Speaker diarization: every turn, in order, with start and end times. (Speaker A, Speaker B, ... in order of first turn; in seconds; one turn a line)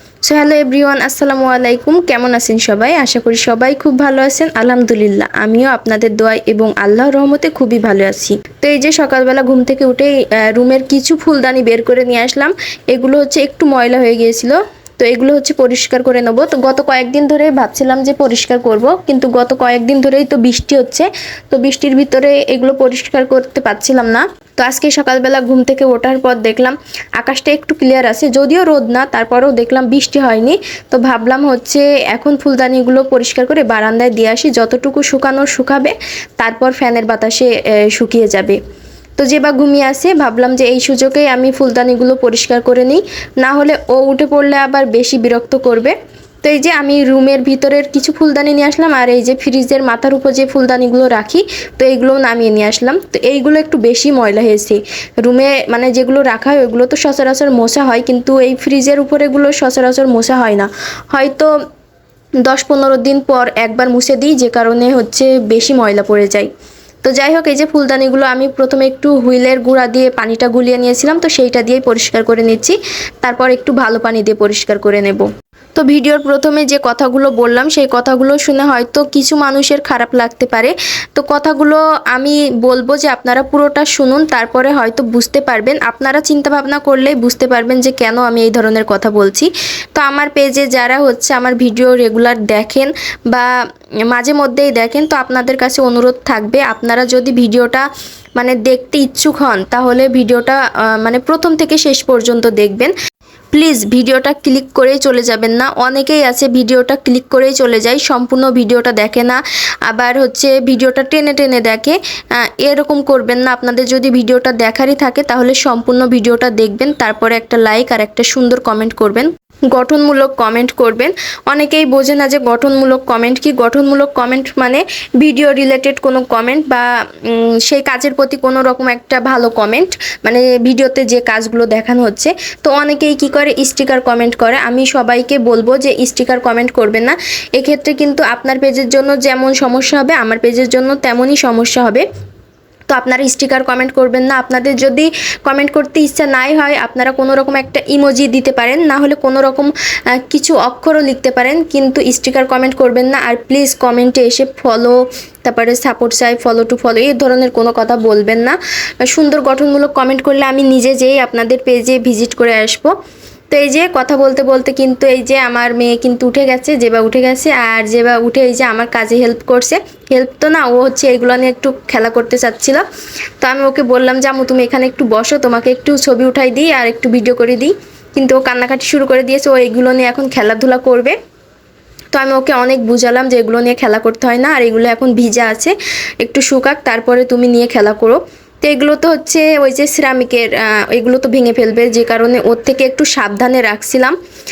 Speaker A: 0.3-38.6
Speaker A: 39.2-61.5
Speaker A: 62.4-66.5
Speaker A: 67.0-93.5
Speaker A: 94.1-102.9
Speaker A: 103.5-112.0
Speaker A: 112.6-142.0
Speaker A: 142.9-158.6
Speaker A: 159.1-162.9
Speaker A: 163.5-172.8
Speaker A: 173.4-181.2
Speaker A: 182.1-194.1